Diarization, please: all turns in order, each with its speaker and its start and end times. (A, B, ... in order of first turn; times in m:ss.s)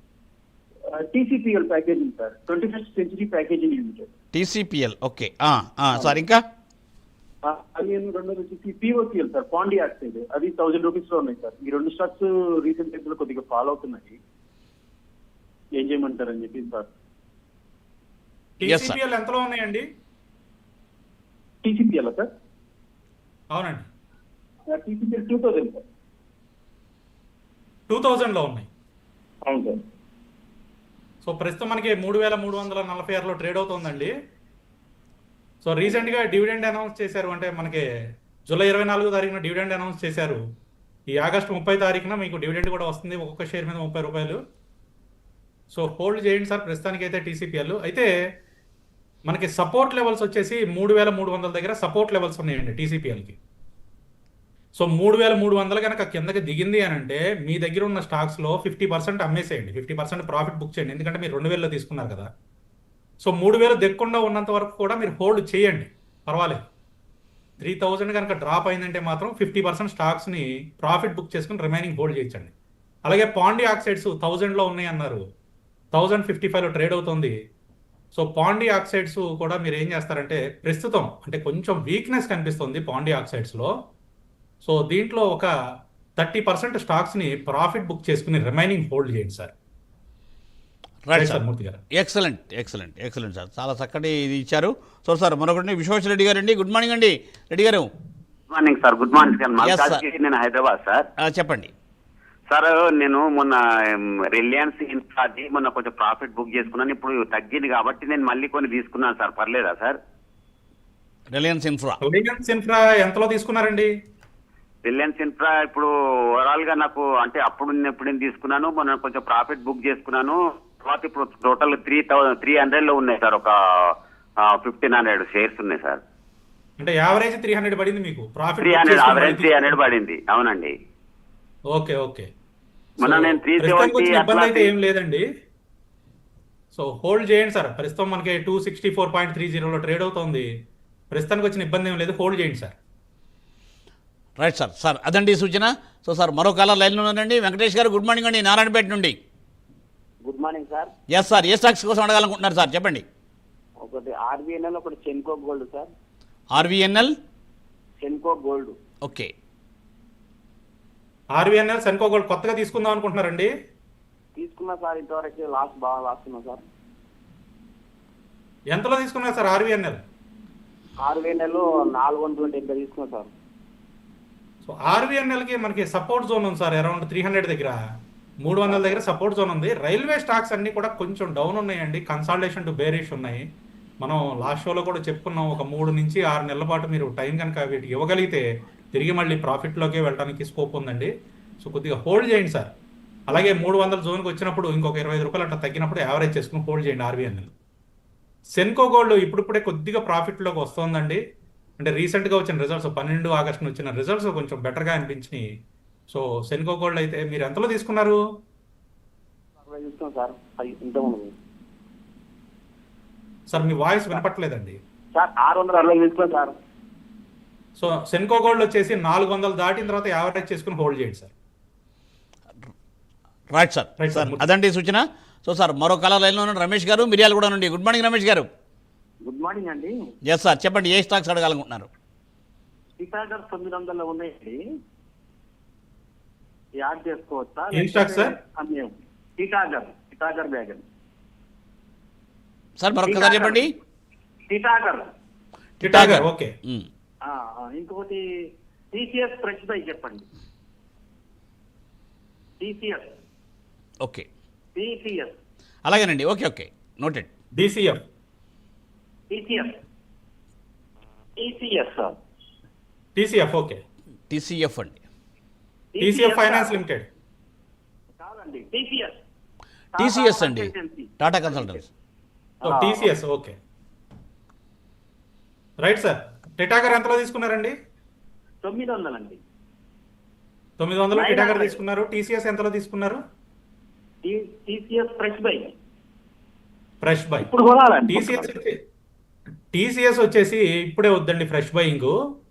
0:00.9-0:04.1 A
0:04.3-0:06.4 B
0:07.4-0:14.2 A
0:15.8-0:16.9 A
0:18.6-0:19.9 C
0:18.7-0:19.0 B
0:21.6-0:22.3 A
0:23.5-0:23.9 C
0:24.6-0:25.8 A
0:27.9-0:28.7 C
0:29.4-0:29.8 A
0:31.2-0:34.1 C
0:35.6-0:37.8 C
0:38.5-0:40.4 C
0:41.1-0:44.4 C
0:45.7-0:48.1 C
0:49.2-0:53.4 C
0:54.7-1:02.3 C
1:03.2-1:06.6 C
1:07.6-1:12.5 C
1:13.0-1:15.2 C
1:15.9-1:17.3 C
1:18.1-1:23.7 C
1:24.6-1:25.5 C
1:26.2-1:29.5 C
1:31.0-1:31.4 B
1:31.1-1:31.8 C
1:31.9-1:37.9 B
1:38.5-1:41.1 D
1:39.6-1:40.0 B
1:41.2-1:41.7 B
1:42.5-1:50.0 D
1:51.3-1:52.0 B
1:52.0-1:53.9 C
1:54.8-2:03.5 D
2:04.4-2:06.0 D
2:06.8-2:09.8 C
2:08.6-2:10.7 D
2:11.7-2:12.3 C
2:13.0-2:14.7 D
2:13.0-2:15.2 C
2:16.7-2:20.5 C
2:21.1-2:22.7 C
2:24.4-2:29.2 B
2:30.2-2:30.9 E
2:31.1-2:33.0 B
2:33.8-2:35.9 E
2:36.5-2:37.1 B
2:38.0-2:38.8 E
2:39.0-2:39.3 B
2:41.3-2:43.5 C
2:44.4-2:46.6 E
2:48.7-2:50.0 C
2:51.0-2:53.3 E
2:54.6-2:57.8 C
2:58.4-3:03.4 C
2:58.7-2:58.9 E
3:04.0-3:12.7 C
3:13.3-3:17.5 C
3:18.5-3:21.2 C
3:21.8-3:25.4 C
3:26.1-3:28.2 C
3:29.6-3:31.3 E
3:33.5-3:34.8 C
3:35.1-3:36.5 E
3:37.8-3:41.3 C
3:43.5-3:48.5 B
3:44.0-3:44.4 C
3:49.2-3:49.9 E
3:50.3-3:51.9 B
3:53.0-3:54.6 E
3:56.8-4:00.8 E
3:57.7-3:58.4 C
3:57.8-3:58.2 A
4:02.8-4:03.7 B
4:04.5-4:05.0 E
4:05.8-4:06.9 B
4:05.8-4:06.5 C
4:07.7-4:08.2 E
4:08.9-4:10.2 E
4:12.6-4:13.0 E
4:14.0-4:14.3 B
4:14.7-4:15.4 E
4:15.8-4:17.3 B
4:17.5-4:18.0 C
4:19.3-4:19.7 E
4:21.4-4:22.2 E
4:23.2-4:23.8 C
4:24.3-4:25.0 B
4:25.9-4:26.8 E
4:26.0-4:27.1 C
4:28.2-4:29.2 E
4:29.9-4:31.8 E
4:30.0-4:31.9 B
4:32.6-4:33.1 E
4:32.6-4:33.6 C
4:35.8-4:37.8 C
4:38.6-4:39.4 E
4:40.8-4:43.2 C
4:41.1-4:41.8 E
4:44.2-4:45.7 E
4:47.0-4:47.5 C
4:47.4-4:48.5 E
4:48.1-4:48.8 C
4:49.7-4:52.1 C